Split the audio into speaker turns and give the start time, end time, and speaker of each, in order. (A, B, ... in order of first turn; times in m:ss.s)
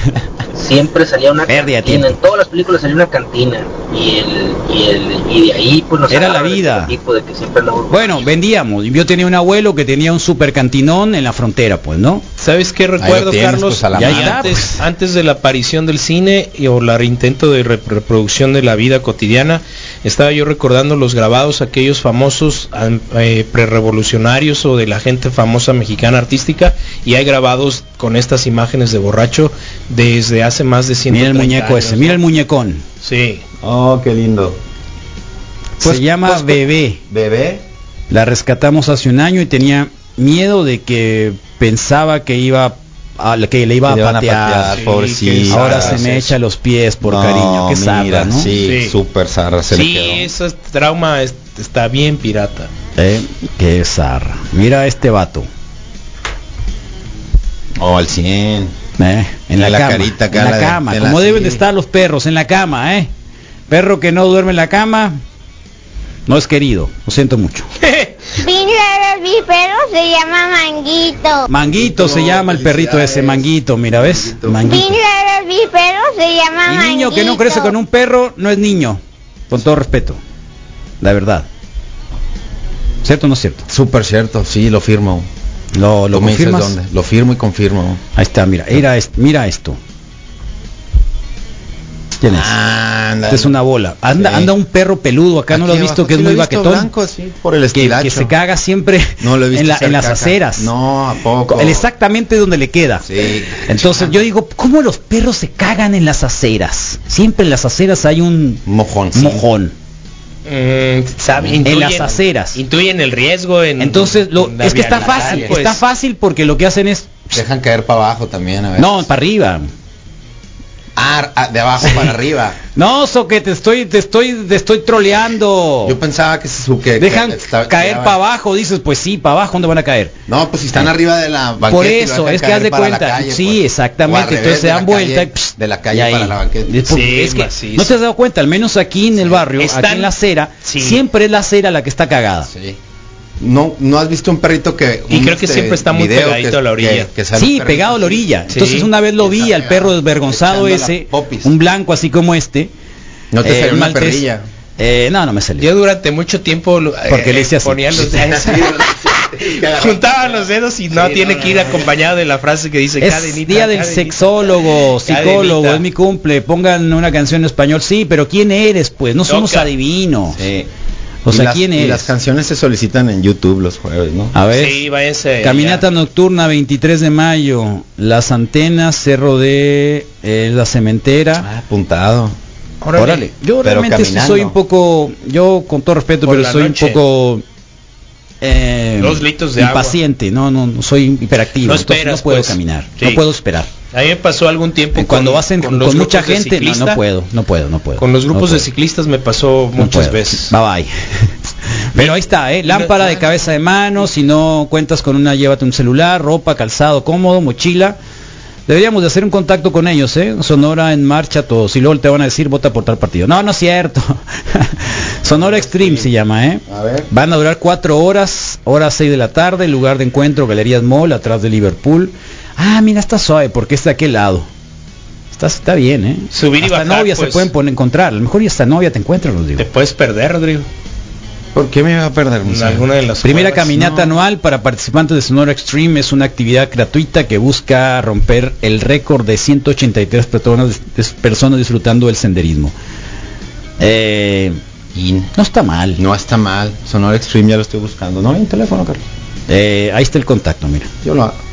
0:00.5-0:08.3 A
0:01.5-0:02.2 B
0:06.1-0:06.9 B
0:07.9-0:12.2 B
0:12.4-0:32.2 C
0:13.0-0:14.6 D
0:13.9-0:14.8 B
0:31.1-0:32.8 B
0:33.0-0:33.4 C
0:33.6-0:34.6 D
0:35.8-0:37.0 B
0:35.8-0:37.6 D
0:38.1-0:44.8 B
0:43.8-0:46.3 D
0:44.7-0:46.1 C
0:45.5-0:48.5 B
0:47.0-0:50.3 D
0:48.6-0:49.0 C
0:49.7-0:52.7 C
0:53.0-0:55.5 B
0:57.8-0:58.7 D
0:59.0-1:03.1 B
0:59.6-1:01.6 D
1:03.7-1:05.2 B
1:06.3-1:07.7 B
1:07.8-1:08.4 C
1:08.4-1:11.5 E
1:11.5-1:15.0 B
1:11.7-1:14.6 D
1:14.6-1:17.7 E
1:16.6-1:20.2 B
1:21.0-1:21.5 B
1:23.0-1:23.6 B
1:23.7-1:25.3 D
1:25.7-1:26.7 B
1:26.1-1:28.0 D
1:28.1-1:29.8 B
1:32.2-1:32.5 B
1:32.3-1:33.6 D
1:33.3-1:36.9 B
1:34.1-1:34.5 D
1:35.5-1:38.3 D
1:37.7-1:40.7 B
1:39.2-1:41.9 D
1:41.5-1:43.0 B
1:43.0-1:44.2 D
1:43.6-1:48.6 B
1:48.6-1:49.4 D
1:49.1-1:49.7 B
1:50.4-1:55.8 C
1:51.6-1:52.6 B
1:53.8-1:57.3 B
1:54.9-1:55.6 D
1:57.3-1:59.1 D
1:58.8-1:59.7 B
2:01.0-2:02.6 D
2:02.7-2:06.0 B
2:05.8-2:08.2 D
2:07.0-2:10.1 B
2:10.3-2:16.7 D
2:11.6-2:22.5 B
2:16.9-2:18.0 C
2:19.6-2:20.1 C
2:20.6-2:21.0 C
2:22.5-2:22.8 D
2:23.4-2:28.3 D
2:25.1-2:27.1 C
2:27.3-2:32.7 B
2:28.5-2:28.9 C
2:29.2-2:31.5 D
2:33.3-2:34.4 D
2:33.4-2:34.2 B
2:34.8-2:35.7 B
2:35.6-2:38.9 C
2:37.1-2:38.1 B
2:38.0-2:41.9 D
2:39.4-2:45.8 C
2:43.0-2:50.5 B
2:49.3-2:49.7 C
2:50.3-2:50.6 D
2:51.2-2:52.1 B
2:51.3-2:54.3 D
2:54.3-2:54.8 B
2:54.5-2:55.8 C
2:55.4-3:01.5 B
3:01.4-3:02.3 D
3:02.8-3:03.2 C
3:03.0-3:07.4 B
3:03.6-3:04.6 D
3:06.2-3:07.0 C
3:08.4-3:13.7 B
3:09.0-3:10.0 C
3:11.6-3:13.2 C
3:13.9-3:17.0 C
3:15.0-3:18.7 B
3:18.0-3:20.5 C
3:19.8-3:20.9 B
3:21.9-3:28.0 B
3:22.0-3:23.5 C
3:28.7-3:44.5 B
3:35.3-3:36.1 D
3:36.7-3:37.1 D
3:45.3-3:49.6 B
3:46.3-3:47.5 C
3:49.6-3:50.7 C
3:51.5-3:52.8 D
3:52.4-3:53.7 C
3:53.2-4:02.7 B
3:53.7-3:54.1 D
4:03.8-4:04.6 B
4:04.9-4:05.3 D
4:05.3-4:06.0 B
4:06.0-4:09.0 D
4:09.5-4:10.9 B
4:11.0-4:11.4 D